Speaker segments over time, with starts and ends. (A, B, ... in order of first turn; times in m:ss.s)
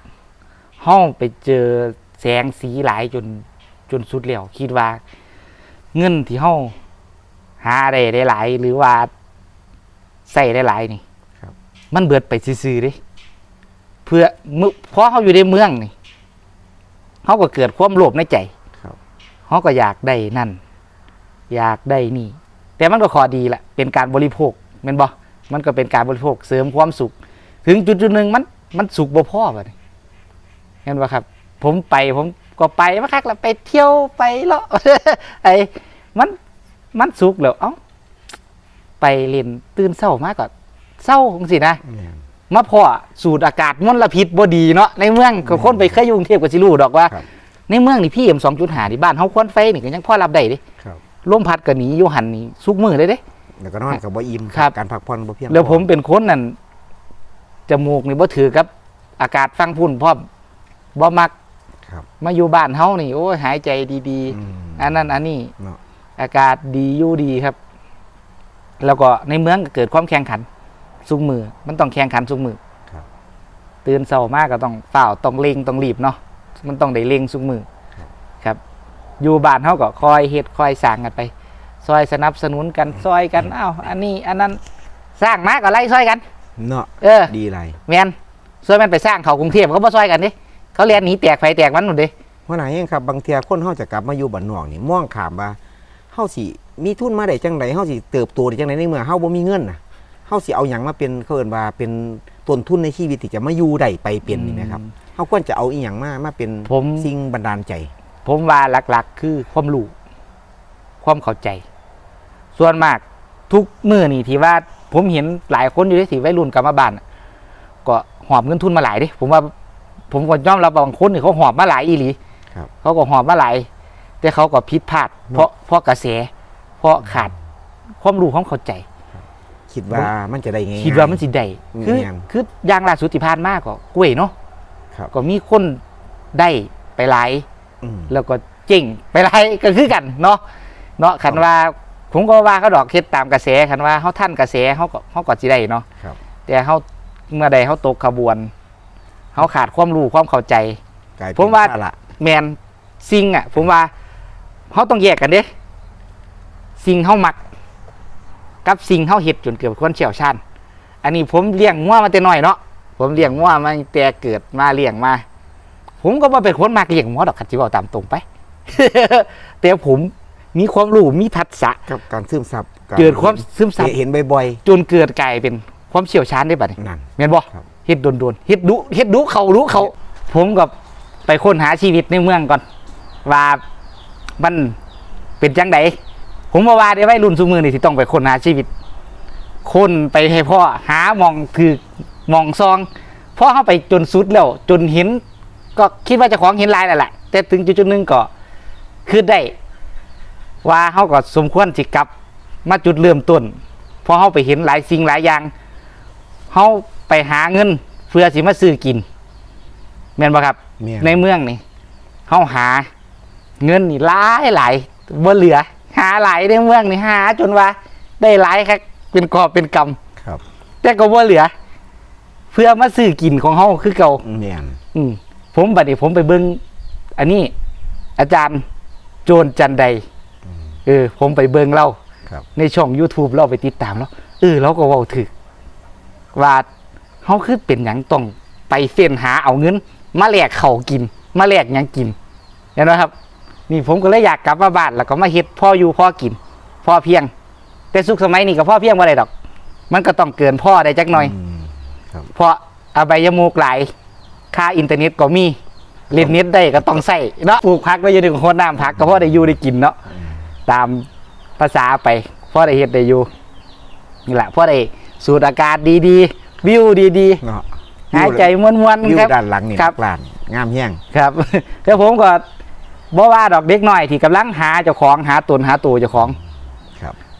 0:00.8-0:05.0 A
0:05.9-0:06.7 A
0:07.6-0:09.1 A
0:10.3-0:11.0 A
0:11.9-0:13.0 A
0:14.0-0:15.9 A
0:17.2-0:18.5 A
0:19.5-0:20.6 A
0:21.5-0:27.1 A
0:27.6-0:29.7 A
0:30.8-0:36.4 A
0:36.9-0:37.8 A
0:39.0-0:41.8 A
0:41.8-0:42.2 B
0:42.5-0:47.2 A
0:45.4-0:46.0 B
0:47.7-0:50.6 A
0:51.2-0:53.2 A
0:53.6-0:55.9 B
0:55.5-0:56.6 A
0:57.7-1:00.2 A
1:00.9-1:01.3 A
1:02.2-1:05.5 A
1:04.3-1:05.8 B
1:06.2-1:07.6 A
1:08.8-1:10.4 A
1:11.0-1:12.6 A
1:13.8-1:17.6 A
1:19.2-1:21.3 A
1:21.8-1:24.6 A
1:25.2-1:26.2 A
1:26.6-1:27.8 B
1:27.0-1:27.3 A
1:27.8-1:32.1 A
1:32.5-1:35.6 B
1:36.1-1:47.9 B
1:44.3-1:44.9 A
1:46.7-1:47.1 A
1:48.2-1:49.9 A
1:51.0-1:51.6 A
1:52.6-1:57.0 A
1:57.8-1:59.5 A
2:00.1-2:02.2 A
2:02.8-2:03.7 A
2:04.2-2:06.3 A
2:06.8-2:07.3 A
2:08.0-2:08.8 A
2:09.1-2:11.2 B
2:10.8-2:14.3 A
2:11.7-2:12.2 B
2:15.1-2:15.8 A
2:16.3-2:17.4 A
2:17.8-2:18.1 B
2:18.1-2:20.4 A
2:21.0-2:25.8 A
2:26.5-2:28.5 A
2:29.3-2:30.8 A
2:31.2-2:32.0 B
2:31.4-2:33.9 A
2:34.7-2:35.5 A
2:36.8-2:37.4 A
2:38.6-2:40.4 A
2:41.0-2:45.2 A
2:46.0-2:51.8 A
2:51.9-2:54.6 B
2:53.0-2:53.9 A
2:54.6-3:00.7 A
2:56.8-2:57.6 B
3:01.3-3:02.6 A
3:03.2-3:03.6 A
3:04.4-3:04.7 A
3:05.4-3:06.0 A
3:06.5-3:08.7 A
3:09.6-3:15.2 A
3:15.8-3:18.3 A
3:19.0-3:19.5 A
3:20.6-3:22.1 A
3:22.6-3:25.5 A
3:26.5-3:29.0 A
3:30.2-3:31.6 A
3:30.8-3:31.2 B
3:32.3-3:32.9 A
3:33.6-3:40.0 A
3:40.8-3:41.5 A
3:42.5-3:44.2 A
3:44.2-3:44.8 B
3:44.9-3:46.6 A
3:47.2-3:47.5 A
3:48.2-3:48.6 A
3:49.2-3:50.0 A
3:50.8-3:52.0 A
3:52.6-3:55.3 A
3:56.3-3:56.6 A
3:57.2-4:02.1 A
4:02.8-4:03.1 A
4:03.7-4:07.3 A
4:07.9-4:09.3 A
4:09.9-4:11.3 A
4:11.1-4:12.3 B
4:12.3-4:13.9 A
4:14.5-4:15.6 A
4:16.1-4:17.0 B
4:16.1-4:20.0 A
4:18.9-4:19.5 B
4:20.6-4:21.1 A
4:21.6-4:23.3 A
4:24.3-4:27.4 A
4:27.4-4:31.0 B
4:28.1-4:29.9 A
4:31.1-4:32.4 A
4:33.1-4:36.4 A